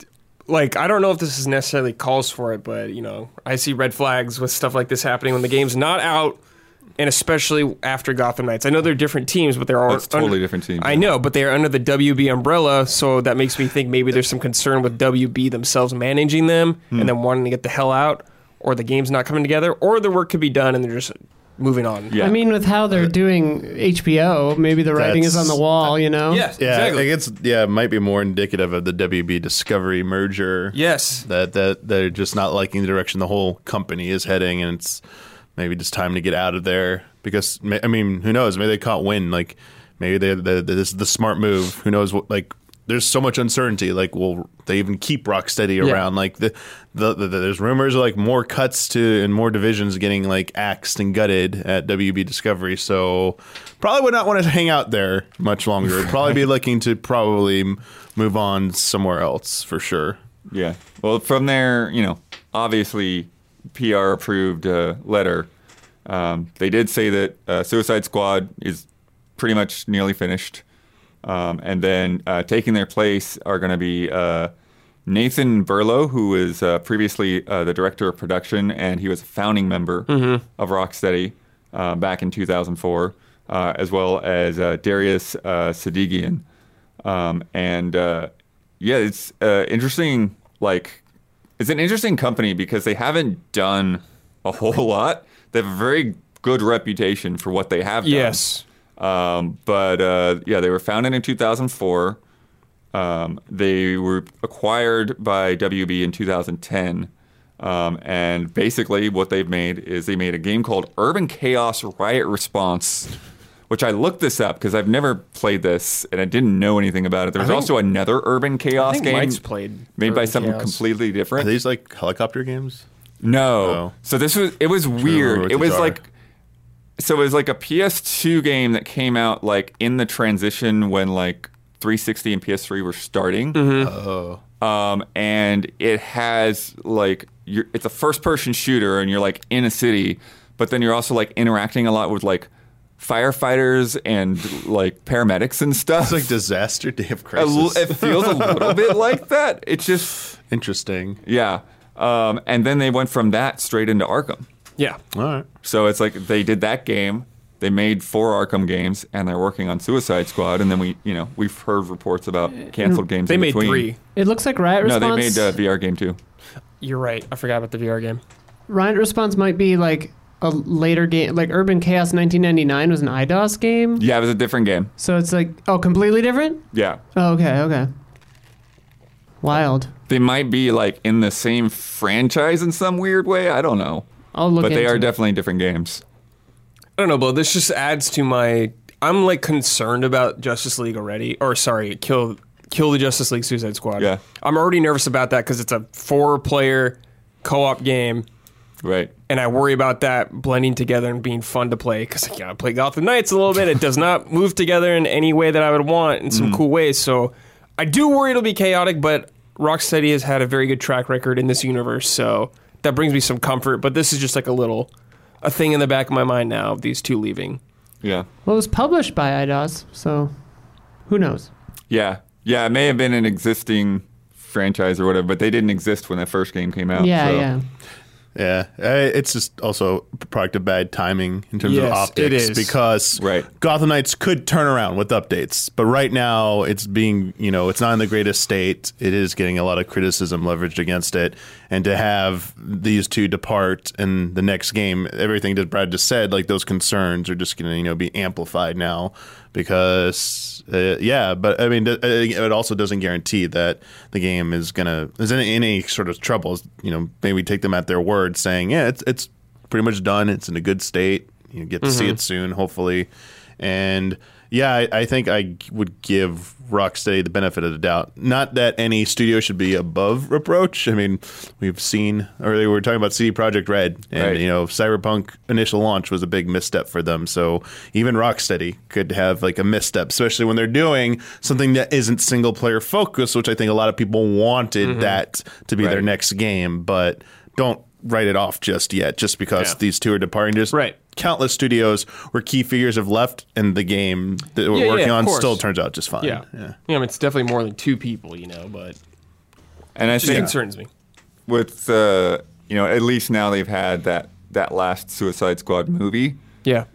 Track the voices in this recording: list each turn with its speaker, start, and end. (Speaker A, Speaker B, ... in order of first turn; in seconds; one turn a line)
Speaker A: 0.5-6.4
Speaker A: 7.0-22.2
Speaker B: 9.9-11.1
Speaker B: 22.1-22.4
Speaker C: 22.2-26.5
Speaker D: 24.9-25.6
Speaker A: 26.3-27.1
Speaker D: 26.6-35.0
Speaker A: 30.7-31.2
Speaker D: 35.6-60.2
Speaker B: 60.5-65.5
Speaker B: 66.1-68.9
Speaker B: 69.4-70.6
Speaker B: 71.2-74.5
Speaker B: 75.1-86.4
Speaker A: 80.1-80.4
Speaker B: 87.0-91.0
Speaker B: 91.6-98.4
Speaker A: 98.0-98.6
Speaker B: 99.0-102.2
Speaker B: 102.9-113.1
Speaker B: 113.7-119.4
Speaker A: 117.4-117.7
Speaker A: 118.8-120.8
Speaker B: 120.0-121.5
Speaker D: 121.4-122.8
Speaker B: 123.2-126.0
Speaker D: 123.6-123.9
Speaker D: 125.0-126.0
Speaker B: 127.0-133.9
Speaker A: 133.5-133.9
Speaker D: 133.8-134.4
Speaker B: 134.6-146.3
Speaker D: 146.0-149.0
Speaker B: 147.4-150.3
Speaker D: 150.5-151.2
Speaker B: 151.3-154.4
Speaker D: 155.1-155.5
Speaker B: 155.6-163.9
Speaker C: 162.8-163.0
Speaker A: 163.3-164.0
Speaker C: 164.1-165.5
Speaker B: 164.8-166.2
Speaker A: 166.8-168.2
Speaker C: 168.7-174.0
Speaker B: 174.0-174.9
Speaker C: 175.0-177.9
Speaker B: 176.7-177.0
Speaker C: 179.4-179.9
Speaker B: 180.1-184.1
Speaker C: 184.3-185.1
Speaker B: 184.6-186.0
Speaker A: 187.0-198.3
Speaker B: 198.8-199.1
Speaker A: 199.3-214.9
Speaker B: 206.3-206.6
Speaker A: 215.4-217.6
Speaker C: 218.5-220.3
Speaker C: 221.1-221.5
Speaker B: 221.9-227.5
Speaker C: 227.0-227.6
Speaker D: 228.3-296.8
Speaker A: 231.6-232.8
Speaker B: 233.1-233.5
Speaker A: 261.8-262.2
Speaker B: 274.1-274.4
Speaker A: 284.8-285.2
Speaker A: 294.7-295.6
Speaker A: 296.2-299.0
Speaker B: 300.0-300.5
Speaker A: 300.2-300.9
Speaker D: 300.2-300.5
Speaker B: 301.5-306.4